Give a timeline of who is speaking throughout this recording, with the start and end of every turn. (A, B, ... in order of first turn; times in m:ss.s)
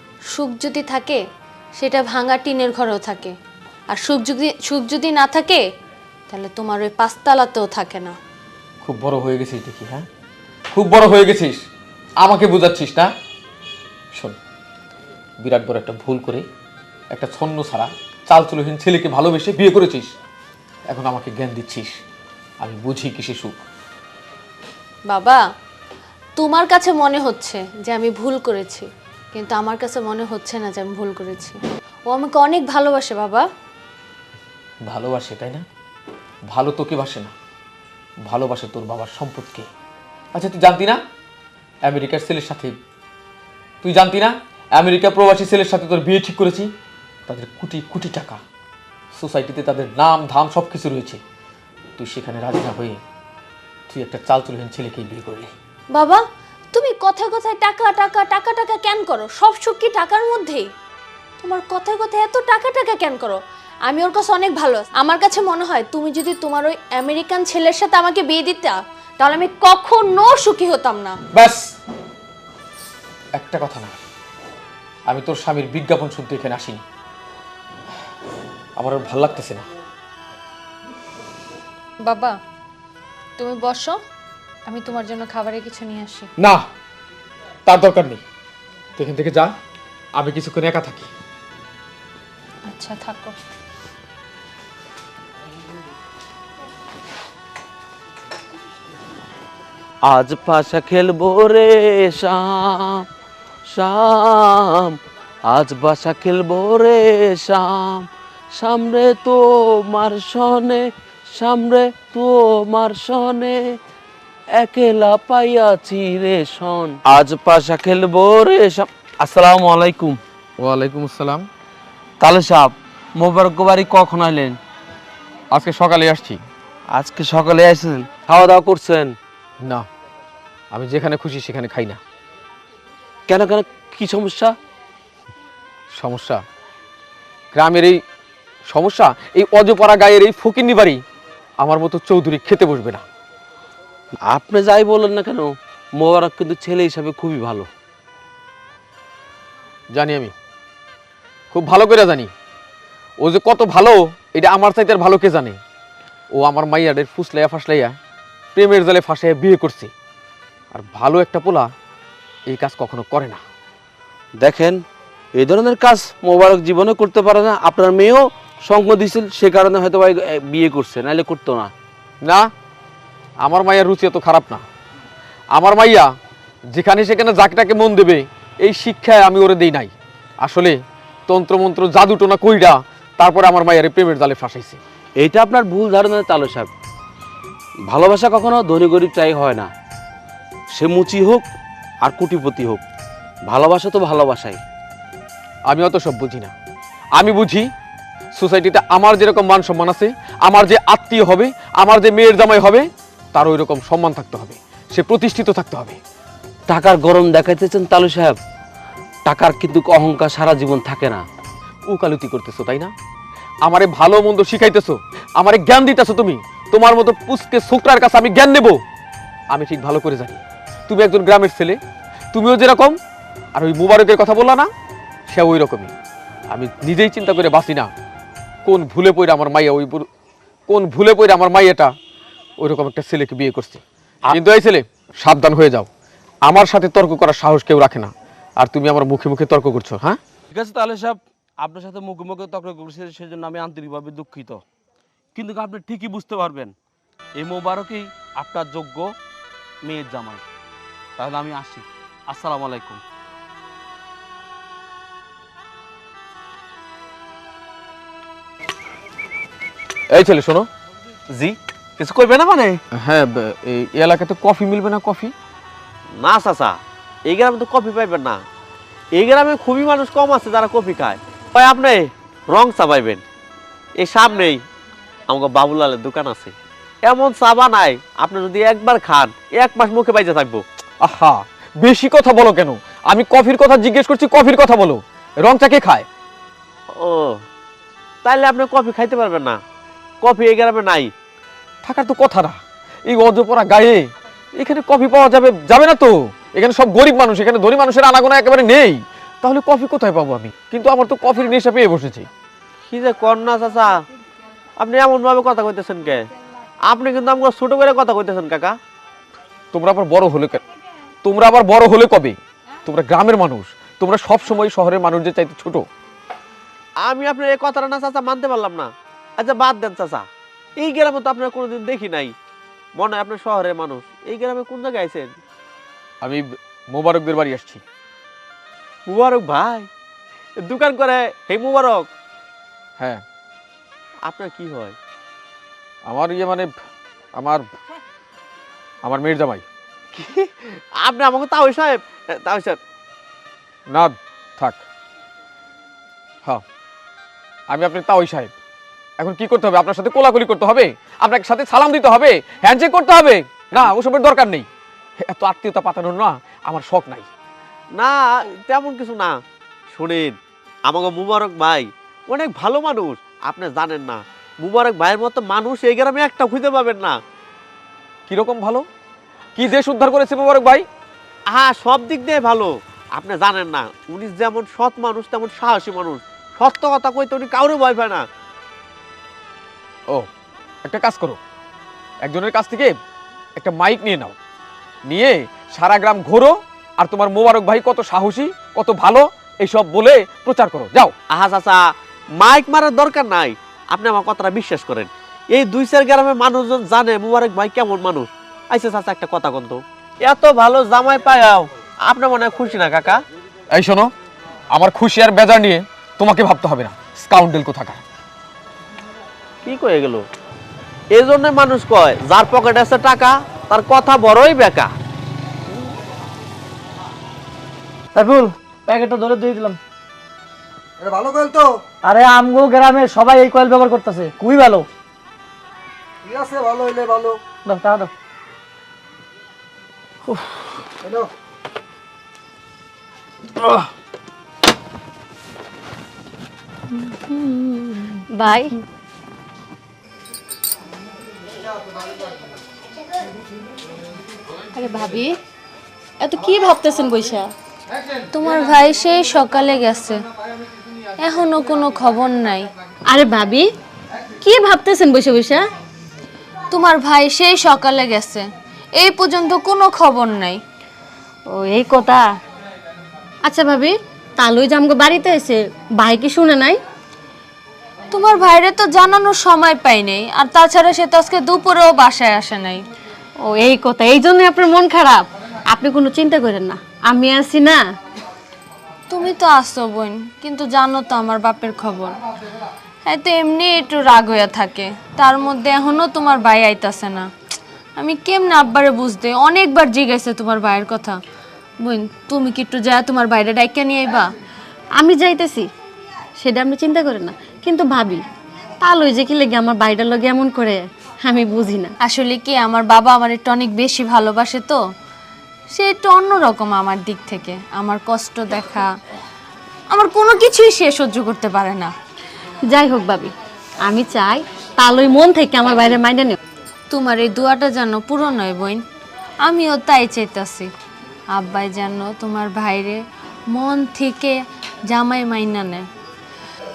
0:00.3-0:01.2 A
0:01.8-0:03.3 A
0:03.9-0:05.6 A
0:06.3-0:08.2 A
0:08.8-0:10.1 B
0:10.7-0:11.6 B
0:12.2-0:13.1 B
0:15.4-0:16.4 B
0:17.1-0:20.1 B
0:20.9-0:22.0 B
0:22.6-0:23.6 B
0:25.1-0:25.4 A
0:26.4-0:33.4 A
0:34.8-0:35.6 B
0:36.5-0:37.3 B
0:38.3-0:39.7 B
0:40.3-0:41.0 B
0:41.8-0:42.8 B
0:43.8-0:46.7 B
0:47.3-0:48.4 B
0:49.1-0:51.2 B
0:52.0-0:53.0 B
0:53.9-0:55.5 B
0:55.9-1:00.7 A
1:01.4-1:11.2 A
1:11.3-1:11.7 B
1:13.3-1:14.0 B
1:15.1-1:16.8 B
1:18.8-1:19.6 B
1:22.0-1:22.4 A
1:23.4-1:24.0 A
1:24.7-1:26.3 A
1:26.4-1:26.6 B
1:27.6-1:28.2 B
1:29.0-1:29.5 B
1:30.1-1:31.1 B
1:32.7-1:33.4 A
1:40.0-1:43.0 C
1:43.7-1:45.0 C
1:45.5-1:53.7 C
1:54.5-2:00.2 C
2:00.6-2:01.5 B
2:02.2-2:04.6 C
2:05.5-2:06.4 B
2:06.9-2:09.1 C
2:10.7-2:12.0 B
2:13.3-2:14.5 C
2:16.0-2:16.4 B
2:17.5-2:18.0 B
2:18.7-2:21.0 B
2:21.6-2:23.0 B
2:24.2-2:27.7 C
2:29.9-2:30.3 B
2:31.5-2:32.3 B
2:33.2-2:35.6 B
2:36.3-2:38.0 B
2:38.5-2:39.9 B
2:40.7-2:41.7 B
2:42.5-2:43.4 B
2:44.4-2:44.8 C
2:45.3-2:51.7 C
2:52.2-2:52.5 B
2:53.4-2:54.6 B
2:55.5-2:56.1 B
2:56.7-3:04.8 B
3:05.2-3:06.7 C
3:07.9-3:09.7 C
3:10.7-3:11.4 C
3:12.0-3:12.8 C
3:13.4-3:14.6 C
3:15.7-3:16.5 B
3:17.2-3:17.7 B
3:18.4-3:26.0 B
3:26.7-3:28.4 C
3:29.2-3:31.2 C
3:31.9-3:32.9 B
3:33.6-3:38.8 B
3:39.5-3:41.8 B
3:42.3-3:43.0 B
3:43.5-3:44.7 B
3:45.3-3:45.9 B
3:46.5-3:47.9 B
3:48.6-3:50.1 B
3:50.7-3:51.9 B
3:52.6-3:55.9 B
3:56.4-4:00.2 B
4:00.5-4:04.6 C
4:05.3-4:06.7 C
4:07.3-4:09.1 C
4:09.8-4:10.4 C
4:11.2-4:13.0 C
4:20.1-4:20.7 B
4:21.3-4:22.8 D
4:22.9-4:25.3 B
4:26.1-4:28.4 D
4:29.1-4:33.2 D
4:34.0-4:34.6 D
4:35.3-4:40.6 D
4:41.0-4:46.1 B
4:46.9-4:47.4 D
4:48.2-4:49.6 D
4:50.2-4:51.1 D
4:51.8-4:54.0 B
4:54.6-5:02.3 B
5:02.9-5:04.0 D
5:04.8-5:06.2 D
5:06.9-5:08.8 D
5:09.7-5:10.6 B
5:11.2-5:15.8 B
5:17.0-5:20.2 D
5:20.8-5:22.3 D
5:23.0-5:25.3 D
5:26.2-5:27.8 B
5:29.1-5:29.9 D
5:30.6-5:32.1 D
5:34.2-5:35.0 D
5:36.1-5:36.7 B
5:37.4-5:37.6 B
5:39.0-5:39.6 B
5:40.1-5:42.8 D
5:43.9-5:44.8 B
5:47.7-5:48.5 B
5:49.2-5:54.7 B
5:55.2-5:57.3 B
5:57.9-5:59.4 D
5:59.9-6:07.2 D
6:08.3-6:08.8 B
6:09.6-6:10.8 B
6:11.5-6:18.2 D
6:20.8-6:21.4 B
6:22.2-6:23.0 B
6:23.6-6:24.3 B
6:25.1-6:31.1 B
6:31.3-6:31.8 D
6:32.4-6:43.2 D
6:43.7-6:44.1 B
6:44.7-6:48.0 B
6:49.6-6:50.2 D
6:51.1-6:54.9 D
6:58.1-6:59.8 E
7:01.0-7:01.7 F
7:02.0-7:04.8 E
7:06.2-7:07.4 F
7:07.6-7:08.1 E
7:10.3-7:10.6 E
7:11.0-7:11.3 F
7:17.1-7:18.2 E
7:18.3-7:18.8 G
7:24.7-7:25.3 G
7:26.2-7:27.5 G
7:28.3-7:30.2 A
7:31.2-7:32.7 A
7:33.1-7:33.7 G
7:34.4-7:35.6 G
7:36.7-7:40.6 A
7:41.5-7:42.3 G
7:43.4-7:46.8 G
7:48.1-7:52.8 A
7:53.4-7:57.9 G
7:59.1-8:02.2 A
8:03.0-8:07.3 A
8:08.0-8:11.2 A
8:11.8-8:14.3 A
8:15.0-8:15.7 G
8:16.4-8:18.2 G
8:18.8-8:21.9 G
8:22.0-8:24.8 A
8:25.7-8:28.9 A
8:29.9-8:31.9 A
8:32.7-8:36.4 G
8:36.9-8:38.8 A
8:39.4-8:40.7 A
8:41.3-8:45.9 A